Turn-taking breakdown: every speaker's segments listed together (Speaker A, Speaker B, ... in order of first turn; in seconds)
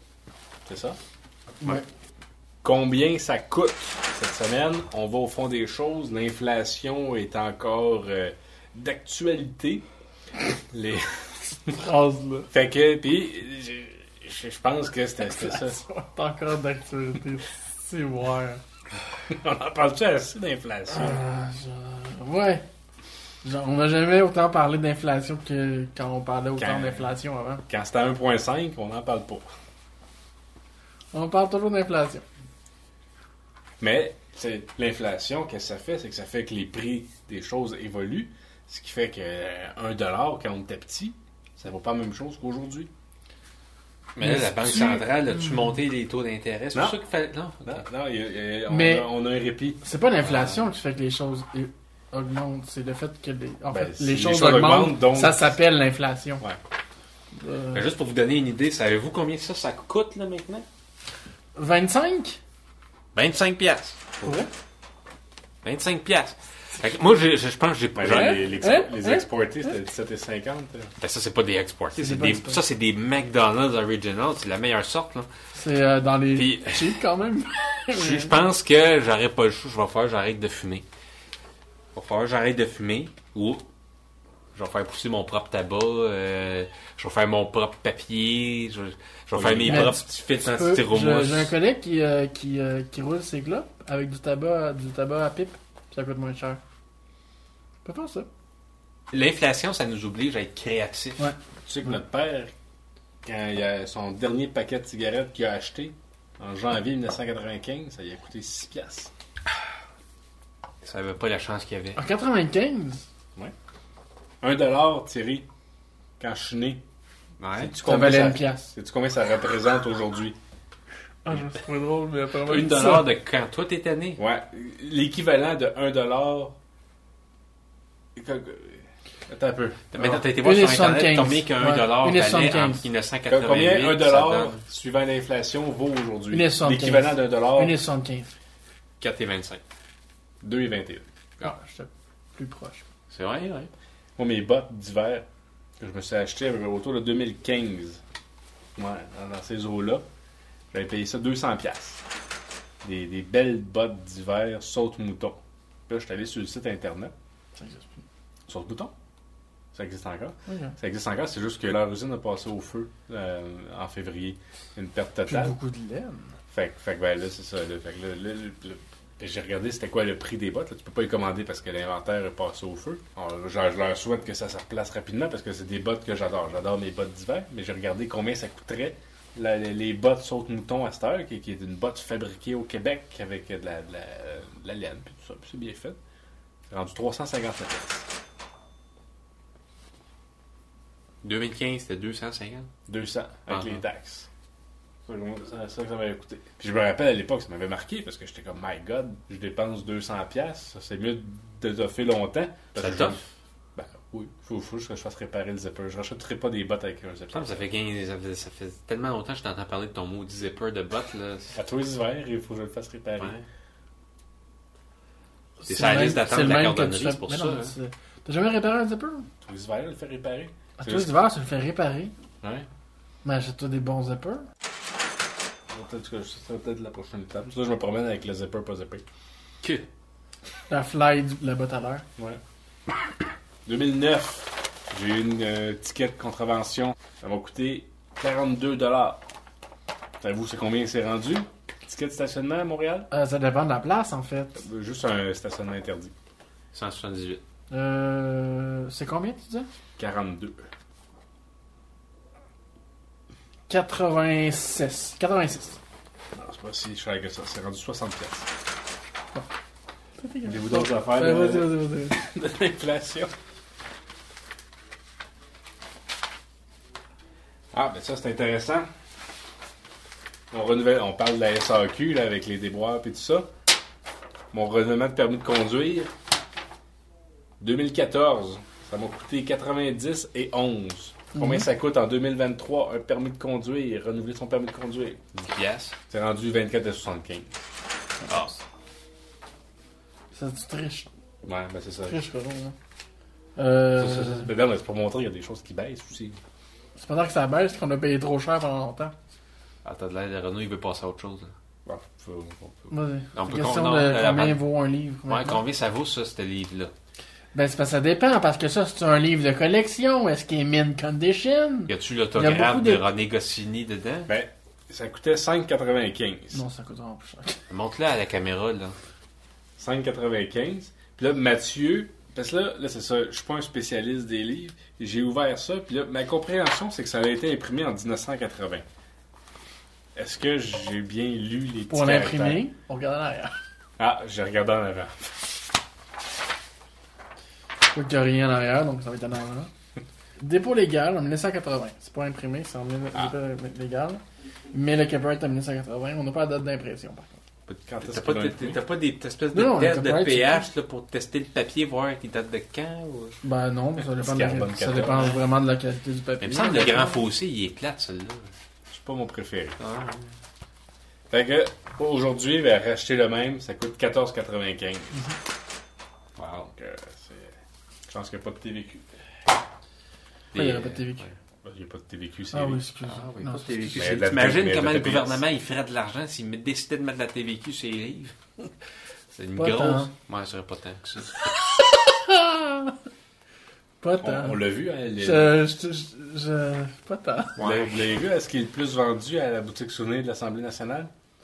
Speaker A: 0.7-1.0, 2.6-9.8, 10.7-11.8, 12.5-15.8, 19.3-21.2, 26.6-29.5, 33.8-42.9, 47.6-49.8, 53.7-55.5, 68.0-70.9, 89.3-90.0, 101.7-102.5, 103.2-109.1, 114.4-115.5, 116.2-116.8, 117.5-120.3, 124.2-126.5, 128.2-129.9, 133.3-137.8, 140.4-141.1, 144.2-145.2, 145.8-148.0, 148.8-150.0, 150.7-152.0, 152.8-157.1, 158.5-158.9, 159.7-165.6, 166.5-186.0, 186.7-188.1, 192.9-194.3, 195.1-203.2, 203.8-207.7, 211.6-213.3, 219.4-221.1, 222.4-222.7, 225.7-229.0, 233.7-239.2, 240.2-243.1, 244.6-246.1, 250.0-250.6, 256.3-258.5, 260.4-263.3, 267.7-268.9, 270.5-273.5, 274.5-276.1, 277.6-285.3, 286.1-287.5, 291.4-292.2, 293.9-296.4, 301.8-302.9, 314.3-316.6, 319.8-328.8, 330.1-332.6, 334.0-335.5, 347.9-348.8, 354.1-355.4, 358.9-359.8, 361.3-365.3, 366.7-367.5, 368.1-369.0, 371.6-372.8, 373.9-375.4, 384.2-385.6, 387.6-391.1
Speaker B: 11.7-12.5, 15.2-18.6, 20.9-22.6, 23.4-27.6, 31.1-32.2, 44.2-45.7, 48.7-49.1, 49.8-56.4, 57.3-57.9, 61.5-62.4, 64.2-64.5, 68.0-69.3, 71.9-72.6, 75.5-78.3, 89.6-96.6, 97.8-98.3, 101.2-102.0, 111.9-113.0, 117.8-118.7, 121.2-123.1, 130.0-132.9, 136.3-138.3, 141.4-142.8, 157.6-157.9, 160.5-160.7, 165.3-166.3, 215.6-219.3, 220.8-222.1, 223.2-224.4, 230.7-232.1, 243.1-244.6, 247.7-249.7, 253.7-255.8, 260.2-262.1, 281.3-281.6, 288.2-288.6, 290.3-291.1, 292.1-292.8, 293.6-294.5, 296.9-299.1, 302.9-305.6, 307.5-313.1, 316.5-317.6, 331.9-333.5, 337.9-339.7, 340.4-344.2, 344.7-347.4, 349.5-350.7, 353.4-357.2, 370.5-371.2, 372.5-374.1, 379.6-380.1, 381.6-382.9, 384.0-384.6, 385.2-387.6
Speaker C: 44.1-47.9, 50.2-50.6, 57.7-60.6, 63.1-64.0, 65.6-68.4, 71.0-75.3, 76.3-77.0, 77.9-80.8, 81.9-83.6, 84.5-91.5, 99.1-101.3, 110.8-112.0, 117.4-117.8, 122.4-124.2, 129.9-134.6, 139.0-139.6, 143.1-143.7, 191.2-192.7, 193.5-193.8, 202.8-203.2, 207.3-211.6, 213.2-213.4, 215.7-217.7, 246.7-247.4, 285.4-285.9, 299.8-301.5, 303.3-304.6, 305.3-306.9, 311.9-314.3, 317.7-318.9, 347.7-353.4, 356.4-358.5, 359.8-360.3, 366.4-366.7, 370.5-371.3, 373.1-378.3, 379.3-381.3, 387.6-388.0